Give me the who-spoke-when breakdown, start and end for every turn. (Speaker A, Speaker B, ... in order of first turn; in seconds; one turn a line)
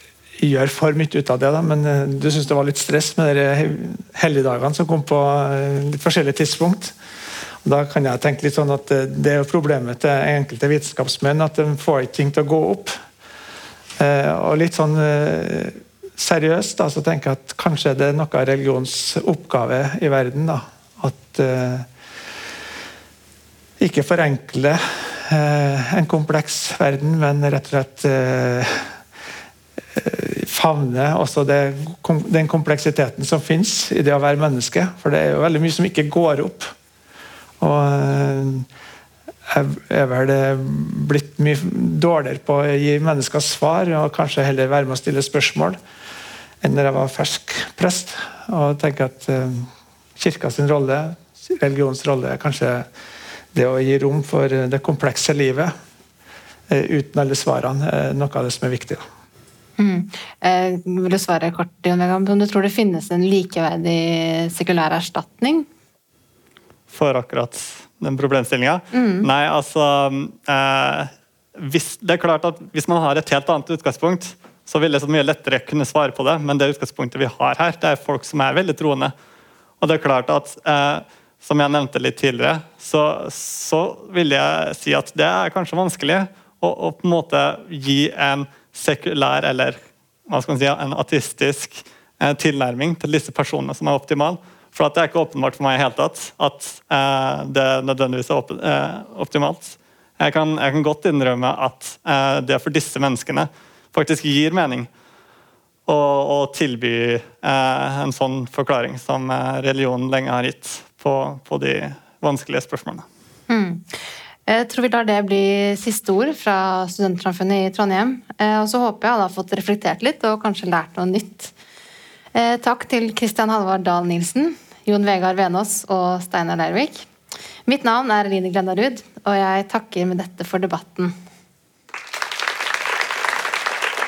Speaker A: 0.4-7.0
Speaker A: 7.6-12.9
Speaker A: 14.0-21.9
Speaker A: 23.8-29.0
Speaker A: 29.9-36.7
Speaker A: 37.6-38.7
Speaker A: 39.5-45.8
Speaker A: 46.6-52.9
Speaker A: 53.5-55.7
Speaker A: 56.7-59.0
Speaker B: 59.8-65.7
Speaker C: 66.9-79.1
Speaker B: 68.9-69.3
Speaker C: 79.8-104.9
Speaker C: 105.9-113.1
Speaker B: 113.5-121.5
Speaker B: 122.3-127.1
Speaker B: 127.7-131.2